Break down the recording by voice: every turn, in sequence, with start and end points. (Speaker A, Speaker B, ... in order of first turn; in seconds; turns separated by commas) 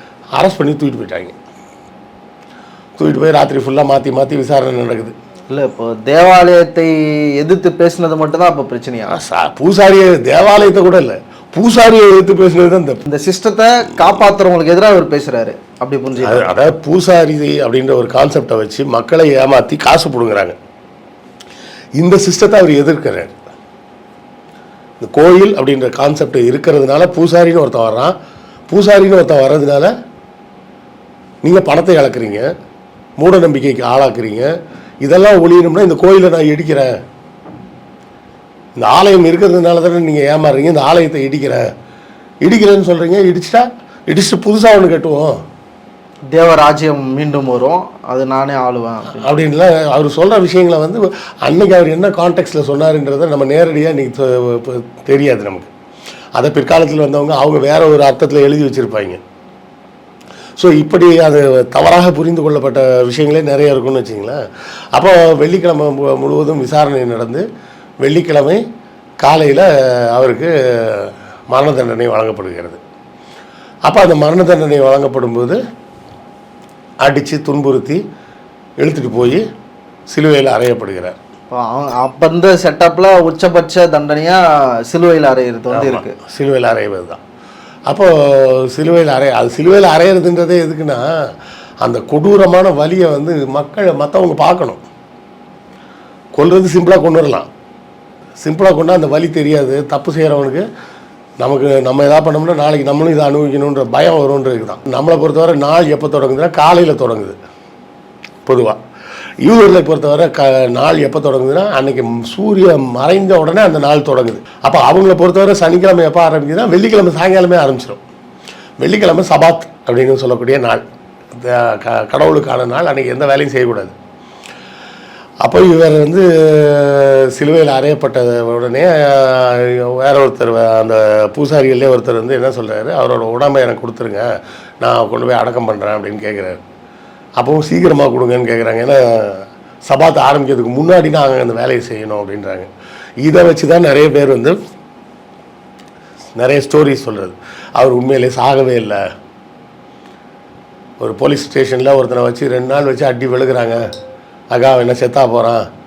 Speaker A: 0.3-1.3, Speaker A: 3.0-5.1, Speaker B: 5.5-9.2, Speaker A: 9.1-13.0, Speaker B: 13.0-16.5, Speaker A: 16.2-20.6, Speaker A: 22.0-23.3, Speaker A: 25.0-28.1, Speaker A: 28.7-29.9, Speaker A: 31.4-32.5, Speaker A: 33.2-34.5, Speaker A: 35.0-36.9, Speaker A: 38.8-41.6, Speaker A: 42.4-45.4, Speaker B: 46.3-49.4, Speaker A: 49.1-55.7, Speaker A: 56.4-59.2, Speaker A: 60.6-64.4, Speaker A: 64.9-67.4, Speaker A: 68.0-68.6, Speaker A: 69.2-72.8, Speaker A: 73.8-75.6, Speaker A: 77.0-78.0, Speaker A: 78.8-79.4, Speaker A: 80.1-81.2, Speaker B: 81.5-86.2, Speaker A: 85.7-87.2, Speaker A: 87.9-91.0, Speaker A: 91.8-94.8, Speaker A: 96.3-97.5, Speaker A: 98.4-100.6, Speaker A: 101.4-107.3, Speaker A: 108.5-108.8, Speaker A: 109.4-118.0, Speaker A: 118.8-123.9, Speaker A: 125.4-134.2, Speaker A: 134.8-136.6, Speaker A: 137.4-142.7, Speaker A: 143.2-144.6, Speaker A: 146.3-149.0, Speaker A: 151.0-153.8, Speaker A: 154.5-155.6